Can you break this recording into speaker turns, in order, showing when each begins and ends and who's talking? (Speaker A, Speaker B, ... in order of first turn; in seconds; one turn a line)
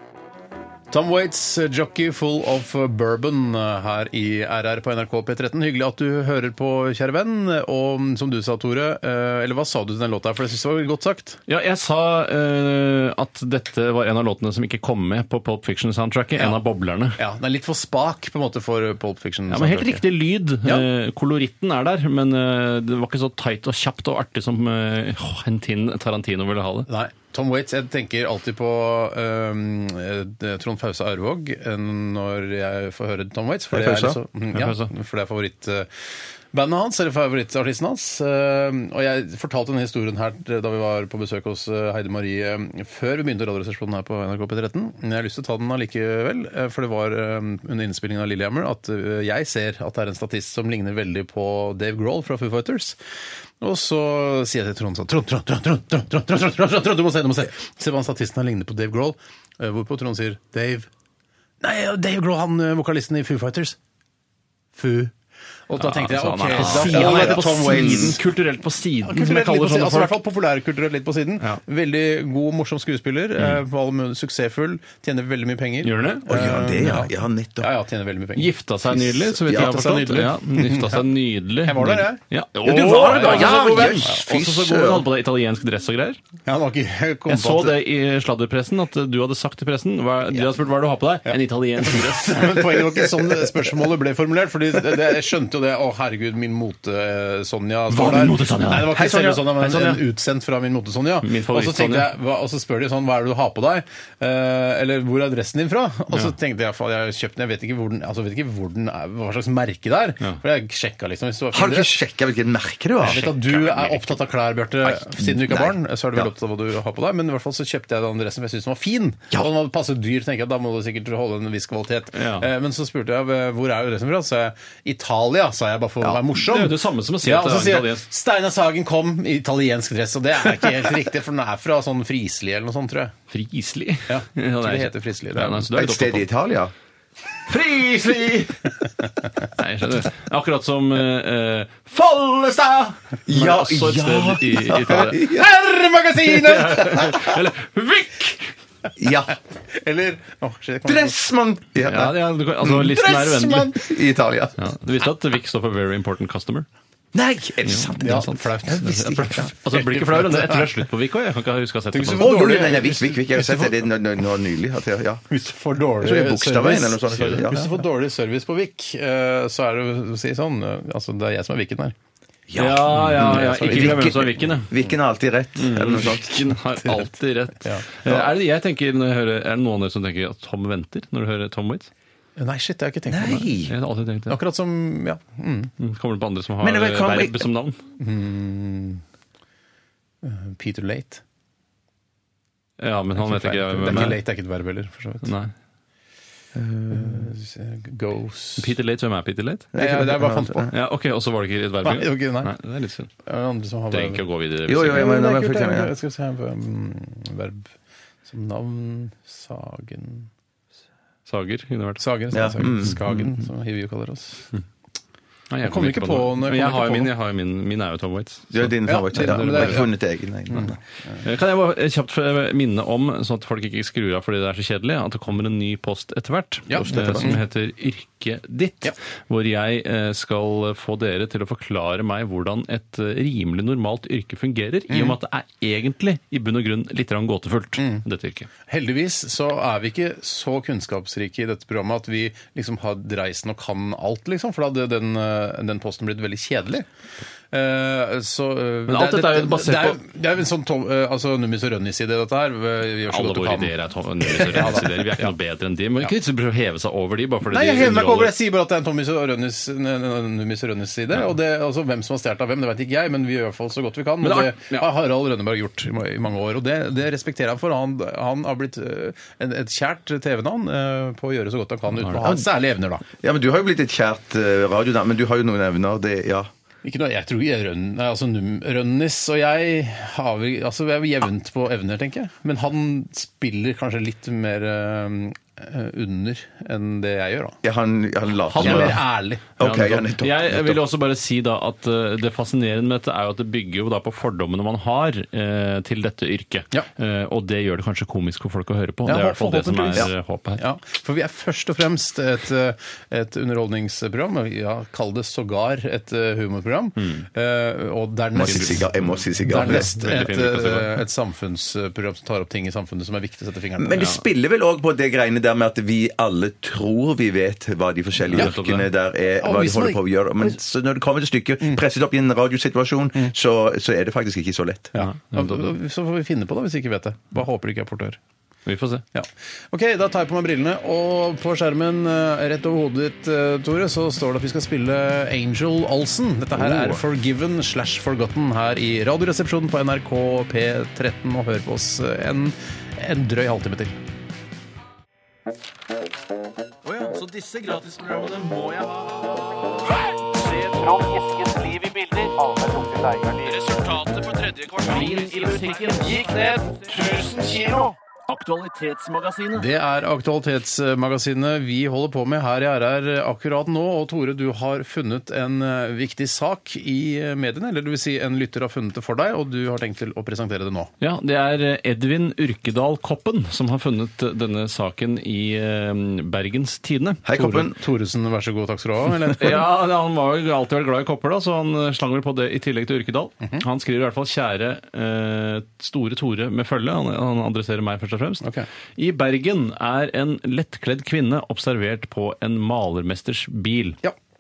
Speaker A: 0.9-11.4
Speaker B: 11.5-17.2
Speaker A: 17.2-20.1
Speaker B: 19.5-26.9
Speaker A: 26.9-35.9
Speaker C: 33.7-34.2
Speaker B: 34.5-34.9
Speaker A: 36.5-53.0
Speaker A: 53.6-60.9
Speaker A: 61.6-63.8
Speaker A: 64.8-65.1
Speaker A: 65.7-68.2
Speaker B: 65.8-70.2
Speaker C: 66.5-68.2
Speaker A: 69.0-81.0
Speaker B: 75.8-76.2
Speaker C: 76.3-77.7
Speaker B: 78.4-86.2
Speaker C: 79.5-79.7
Speaker A: 81.6-82.2
Speaker C: 82.6-85.1
Speaker A: 82.8-84.2
Speaker A: 86.5-87.8
Speaker B: 87.3-92.6
Speaker A: 91.9-111.9
Speaker B: 97.9-99.9
Speaker C: 99.0-100.0
Speaker B: 101.2-102.1
Speaker C: 111.5-113.3
Speaker A: 113.0-133.1
Speaker B: 113.0-114.1
Speaker C: 114.8-116.3
Speaker B: 122.2-122.5
Speaker B: 126.3-128.1
Speaker B: 133.3-136.3
Speaker A: 134.1-135.7
Speaker C: 135.7-136.7
Speaker B: 137.5-138.7
Speaker B: 139.6-145.4
Speaker C: 143.3-145.5
Speaker A: 145.2-147.0
Speaker B: 146.2-148.5
Speaker C: 149.0-149.4
Speaker A: 149.7-151.2
Speaker C: 150.8-154.6
Speaker B: 151.9-153.8
Speaker B: 154.6-156.7
Speaker C: 157.1-158.3
Speaker B: 157.7-162.3
Speaker A: 158.0-160.7
Speaker A: 161.9-163.8
Speaker C: 162.2-165.2
Speaker A: 165.3-171.9
Speaker C: 166.0-167.8
Speaker B: 167.2-167.4
Speaker C: 172.5-176.6
Speaker B: 172.6-174.7
Speaker A: 173.2-174.1
Speaker B: 175.6-181.9
Speaker A: 182.4-183.5
Speaker C: 183.1-183.8
Speaker B: 183.7-184.4
Speaker A: 184.3-185.7
Speaker B: 185.8-187.8
Speaker C: 186.6-187.5
Speaker A: 188.0-189.0
Speaker A: 190.2-191.2
Speaker B: 192.8-194.2
Speaker A: 193.2-195.3
Speaker C: 193.9-194.2
Speaker B: 195.2-195.5
Speaker C: 196.5-197.3
Speaker A: 196.9-198.7
Speaker B: 198.6-199.7
Speaker C: 199.7-200.7
Speaker A: 199.8-200.7
Speaker B: 200.7-203.1
Speaker A: 201.8-202.5
Speaker A: 203.2-204.2
Speaker B: 203.9-205.1
Speaker C: 204.7-205.9
Speaker A: 204.9-207.7
Speaker A: 208.3-210.3
Speaker B: 211.3-212.0
Speaker A: 212.0-214.5
Speaker C: 212.3-213.1
Speaker B: 215.5-219.9
Speaker A: 215.6-217.1
Speaker C: 218.5-220.8
Speaker A: 218.8-219.9
Speaker B: 221.2-238.5
Speaker A: 226.7-227.4
Speaker C: 226.8-227.4
Speaker A: 234.9-235.2
Speaker A: 237.8-238.0
Speaker A: 238.7-246.9
Speaker A: 247.5-253.7
Speaker B: 248.9-250.0
Speaker B: 253.1-258.3
Speaker A: 254.3-255.3
Speaker A: 257.5-273.0
Speaker B: 264.2-264.9
Speaker C: 273.2-276.5
Speaker A: 276.8-287.6
Speaker C: 287.6-289.0
Speaker B: 288.5-289.0
Speaker A: 288.6-289.4
Speaker C: 289.6-290.8
Speaker B: 289.6-300.6
Speaker A: 299.1-308.9
Speaker B: 307.0-307.2
Speaker C: 308.4-309.9
Speaker B: 308.4-308.9
Speaker A: 309.4-314.1
Speaker B: 309.5-311.0
Speaker C: 313.8-324.9
Speaker B: 318.3-318.9
Speaker A: 319.4-320.0
Speaker A: 324.9-328.2
Speaker B: 325.0-325.7
Speaker B: 328.7-329.0
Speaker A: 329.1-343.9
Speaker B: 336.6-337.0
Speaker B: 346.9-349.3
Speaker B: 350.4-351.1
Speaker D: 350.8-353.6
Speaker B: 353.4-359.6
Speaker A: 359.6-370.9
Speaker B: 371.0-377.2
Speaker C: 377.2-377.8
Speaker A: 377.3-379.6
Speaker B: 379.4-388.5
Speaker B: 389.0-394.0